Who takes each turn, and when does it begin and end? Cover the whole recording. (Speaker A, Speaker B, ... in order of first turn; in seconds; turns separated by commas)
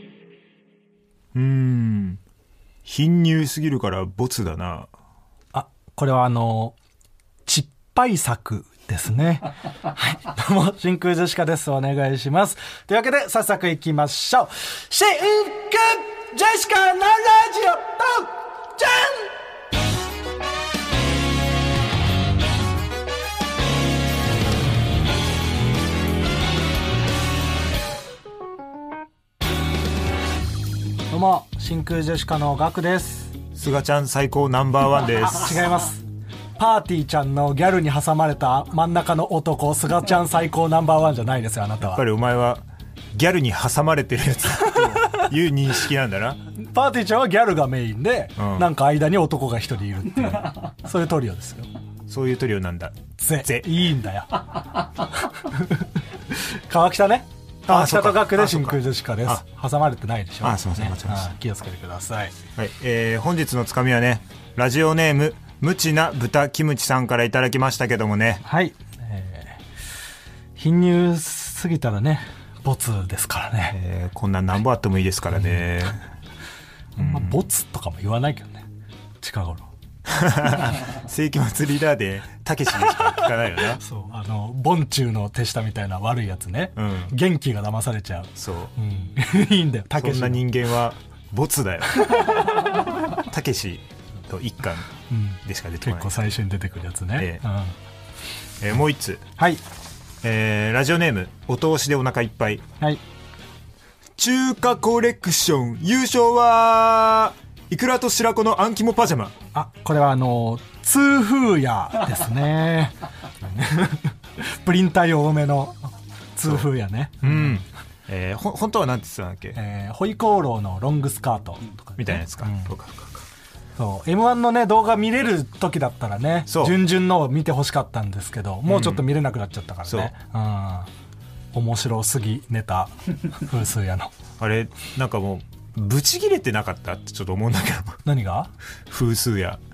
Speaker A: 1.4-2.2, Speaker A: 2.9-4.9, Speaker B: 5.5-6.8, Speaker B: 7.5-19.3, Speaker B: 31.1-33.4, Speaker A: 33.5-35.7, Speaker B: 35.2-36.0, Speaker B: 36.6-42.0, Speaker A: 41.8-46.4, Speaker B: 44.8-45.2, Speaker B: 46.5-51.7, Speaker A: 48.4-48.7, Speaker A: 52.1-53.7, Speaker B: 53.2-54.6, Speaker B: 55.1-62.3, Speaker A: 57.7-59.4, Speaker A: 60.4-61.3, Speaker A: 62.6-68.4, Speaker B: 68.5-69.6, Speaker B: 70.6-73.8, Speaker A: 73.7-76.0, Speaker A: 77.0-77.4, Speaker B: 77.0-78.7, Speaker B: 79.2-79.7, Speaker A: 80.1-83.8, Speaker B: 83.8-90.4, Speaker A: 86.8-87.1, Speaker A: 88.4-88.7, Speaker A: 90.0-94.9, Speaker B: 91.9-92.6, Speaker B: 95.1-97.7, Speaker A: 95.4-96.2, Speaker A: 97.2-97.4, Speaker A: 98.6-99.3, Speaker A: 100.2-102.7, Speaker A: 104.2-109.3, Speaker B: 109.5-117.6, Speaker A: 117.2-119.6, Speaker B: 119.5-122.7, Speaker A: 122.0-123.2, Speaker B: 123.8-130.9, Speaker A: 126.5-126.8, Speaker A: 128.7-129.1, Speaker A: 129.9-130.1, Speaker B: 131.5-134.1, Speaker A: 134.4-138.0, Speaker B: 138.1-138.5, Speaker A: 138.9-139.6